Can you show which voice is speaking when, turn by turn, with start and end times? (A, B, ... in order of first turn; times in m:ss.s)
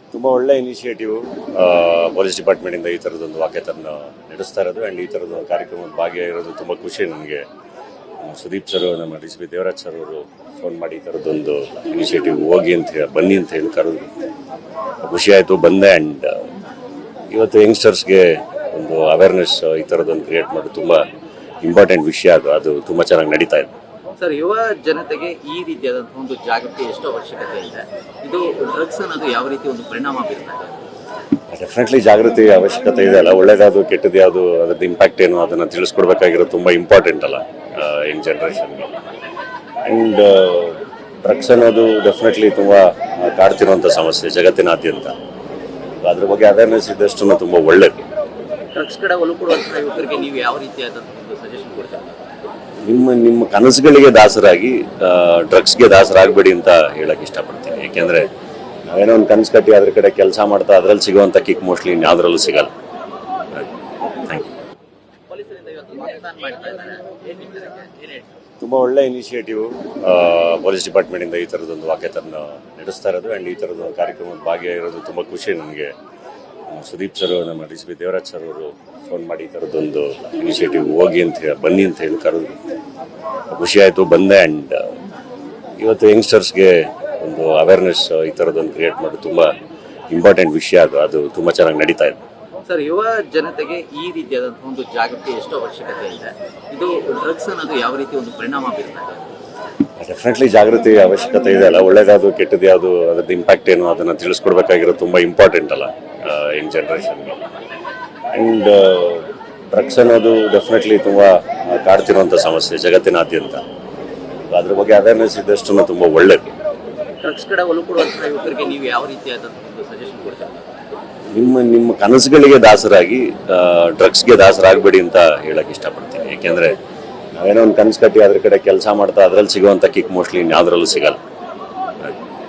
0:00.1-0:07.5 A
0:08.2-0:14.1 A
0:15.0-0:16.5 A
0:17.3-0:21.0 A
0:21.6-0:23.7 A
0:24.2-0:30.9 B
0:31.5-0:39.0 A
0:39.9-0:45.1 A
0:46.0-0:48.1 A
0:48.7-0:52.2 B
0:52.8-0:58.3 A
0:58.9-1:02.7 A
1:04.2-1:04.5 A
1:05.3-1:08.3 B
1:08.6-1:15.9 A
1:16.7-1:22.6 A
1:23.5-1:25.0 A
1:25.8-1:29.5 A
1:30.1-1:32.2 A
1:32.7-1:39.3 B
1:40.0-1:47.5 A
1:48.3-1:53.6 A
1:54.5-1:56.5 A
1:57.2-2:00.6 B
2:01.3-2:06.8 A
2:07.4-2:11.2 A